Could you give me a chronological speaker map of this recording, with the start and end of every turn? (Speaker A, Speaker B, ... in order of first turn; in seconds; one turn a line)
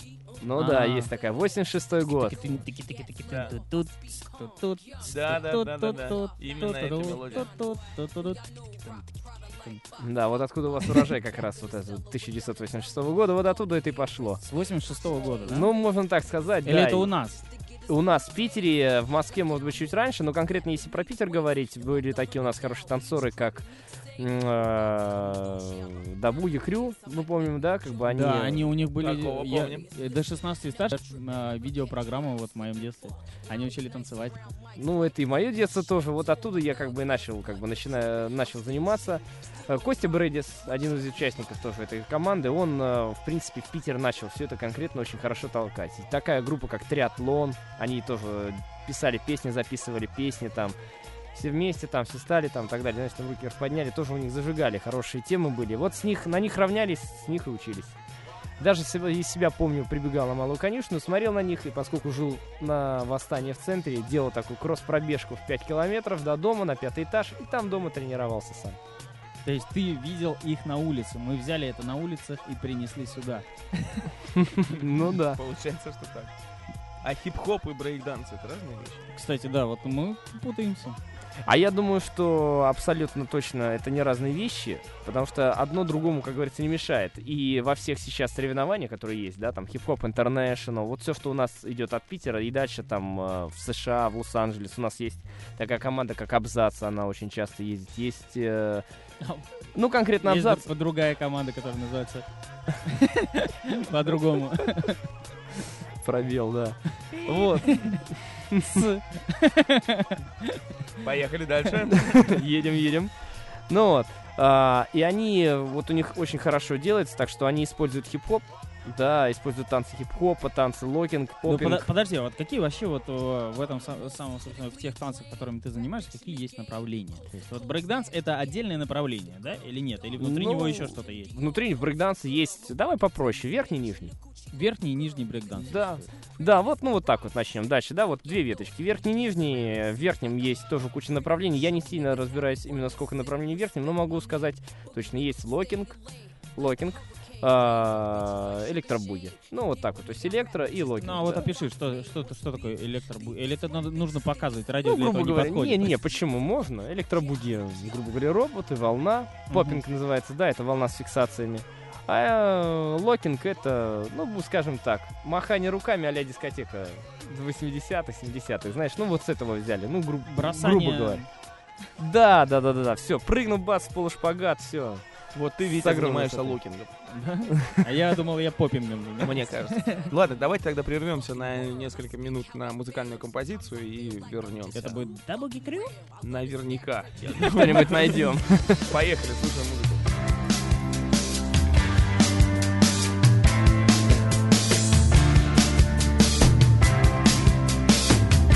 Speaker A: 0.4-2.6
Speaker B: 0.6-1.1
Speaker B: 2.2-9.8
Speaker C: 3.3-3.5
Speaker C: 5.1-7.5
Speaker A: 10.0-14.4
Speaker B: 14.4-15.7
Speaker A: 15.5-17.1
Speaker B: 16.6-17.4
Speaker A: 17.9-23.7
Speaker A: 24.2-28.7
Speaker B: 28.1-34.4
Speaker C: 29.0-29.9
Speaker A: 34.8-50.8
Speaker A: 51.3-58.0
Speaker A: 58.6-68.8
Speaker B: 69.4-74.1
Speaker A: 74.4-75.4
Speaker C: 75.3-76.3
Speaker C: 77.0-79.0
Speaker B: 79.1-81.0
Speaker A: 81.5-98.8
Speaker A: 99.8-100.7
Speaker B: 100.2-102.3
Speaker B: 102.8-105.0
Speaker A: 106.0-108.8
Speaker B: 107.2-108.0
Speaker B: 108.7-110.6
Speaker C: 111.0-112.3
Speaker A: 111.9-113.1
Speaker A: 113.7-121.9
Speaker B: 121.5-131.3
Speaker A: 130.2-134.2
Speaker B: 134.5-136.1
Speaker A: 135.6-146.0
Speaker A: 146.6-151.5
Speaker B: 151.0-155.9
Speaker A: 154.8-171.2
Speaker B: 159.5-159.8
Speaker B: 170.3-171.3
Speaker A: 172.0-175.1
Speaker C: 175.3-176.9
Speaker A: 175.6-176.6
Speaker B: 177.1-180.1
Speaker C: 179.2-185.0
Speaker B: 184.7-185.9
Speaker C: 186.2-188.3
Speaker A: 187.5-188.9
Speaker C: 188.8-190.0